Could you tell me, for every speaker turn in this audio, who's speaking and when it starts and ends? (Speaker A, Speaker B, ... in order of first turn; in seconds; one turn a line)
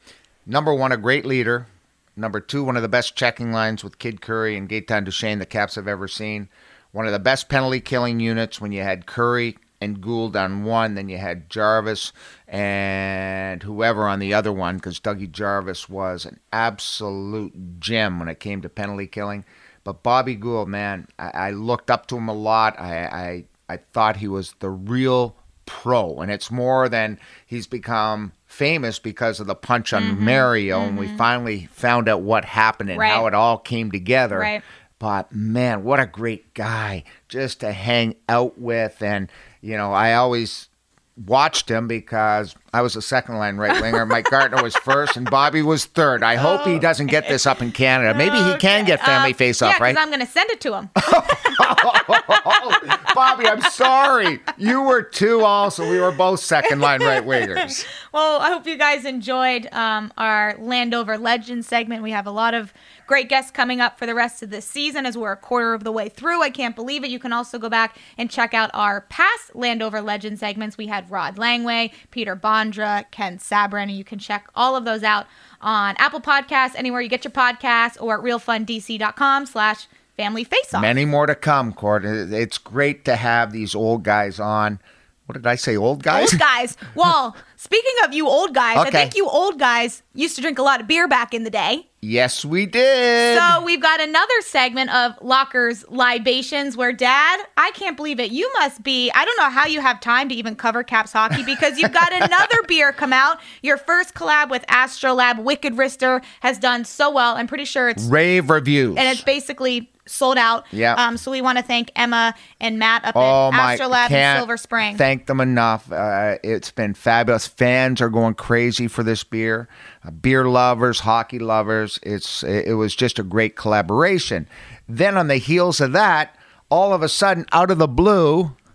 Speaker A: 0.5-50.0
Speaker B: 29.9-31.2
Speaker B: 32.9-33.2
Speaker B: 34.3-34.6
Speaker B: 46.4-46.8
Speaker B: 48.1-51.5
Speaker A: 51.0-57.8
Speaker B: 58.1-80.9
Speaker A: 80.7-86.4
Speaker B: 86.1-91.8
Speaker A: 88.7-89.1
Speaker A: 92.0-93.6
Speaker B: 93.3-108.1
Speaker A: 108.0-109.2
Speaker B: 108.9-115.0
Speaker A: 110.7-111.0
Speaker A: 113.1-128.6